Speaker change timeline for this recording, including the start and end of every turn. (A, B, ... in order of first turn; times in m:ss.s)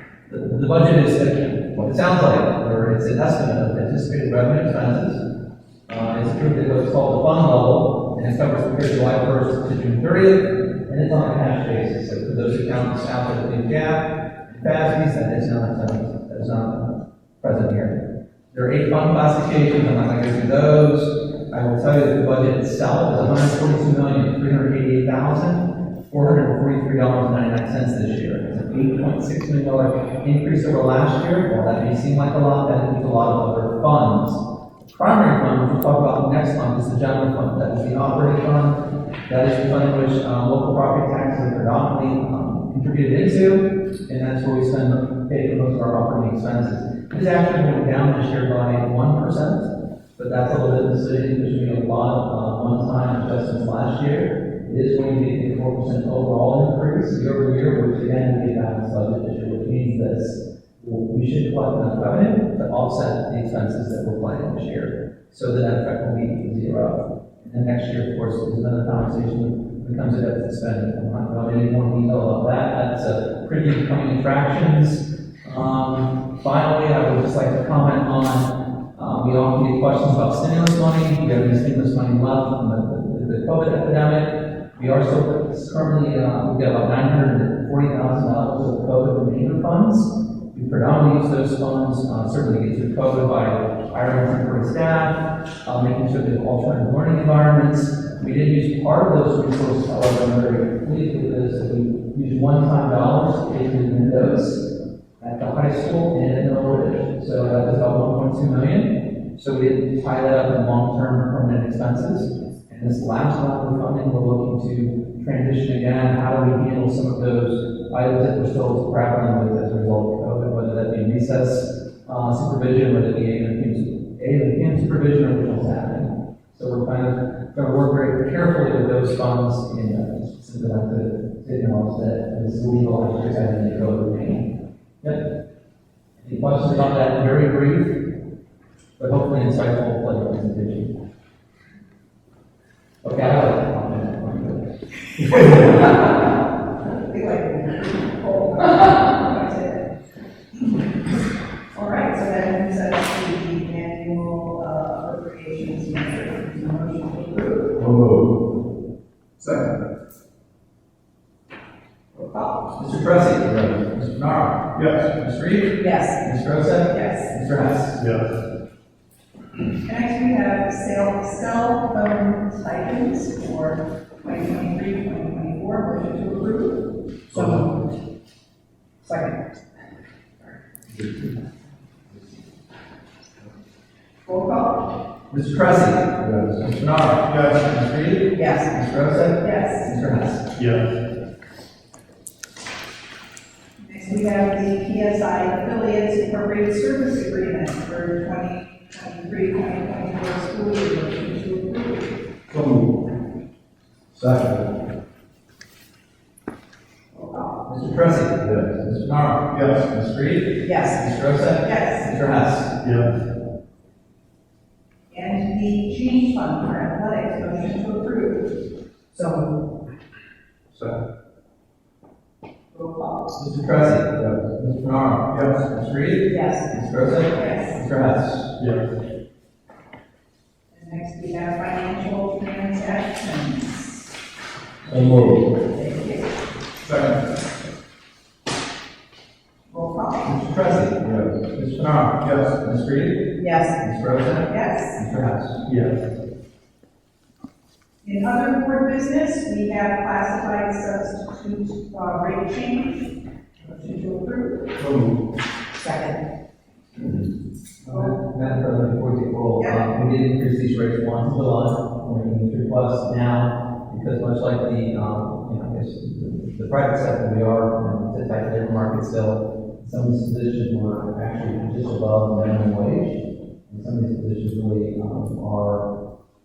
0:00.3-0:05.2 A
0:05.9-1:44.6 A
1:45.2-2:14.5 A
2:16.2-2:18.0 A
2:19.0-2:20.9 A
2:23.0-2:24.7 A
2:25.2-2:25.9 A
2:27.0-2:29.9 B
2:31.7-2:37.8 B
2:37.8-2:38.3 C
2:39.4-2:39.7 C
2:42.4-2:44.6 A
2:45.1-2:48.0 A
2:45.8-2:46.2 B
2:46.9-2:47.3 B
2:49.8-2:57.8 B
2:59.0-2:59.4 B
3:04.2-3:04.8 B
3:05.3-3:10.4 A
3:06.2-3:06.5 C
3:08.3-3:08.7 B
3:09.4-3:09.9 B
3:13.8-3:22.1 B
3:22.5-3:22.9 C
3:24.1-3:24.7 C
3:27.1-3:27.6 B
3:27.6-3:32.7 A
3:30.6-3:31.0 B
3:31.6-3:32.1 B
3:35.1-3:38.5 B
3:39.1-3:39.5 B
3:42.7-3:43.2 B
3:43.3-3:48.5 A
3:46.3-3:46.7 B
3:47.3-3:47.8 B
3:50.7-3:54.1 B
3:54.9-3:55.4 C
3:55.2-3:56.3 B
3:59.7-4:00.3 B
4:00.2-4:05.6 A
4:03.4-4:03.8 B
4:04.5-4:05.0 B
4:08.0-4:14.7 B
4:14.8-4:15.2 C
4:15.8-4:16.2 B
4:17.8-4:35.9 A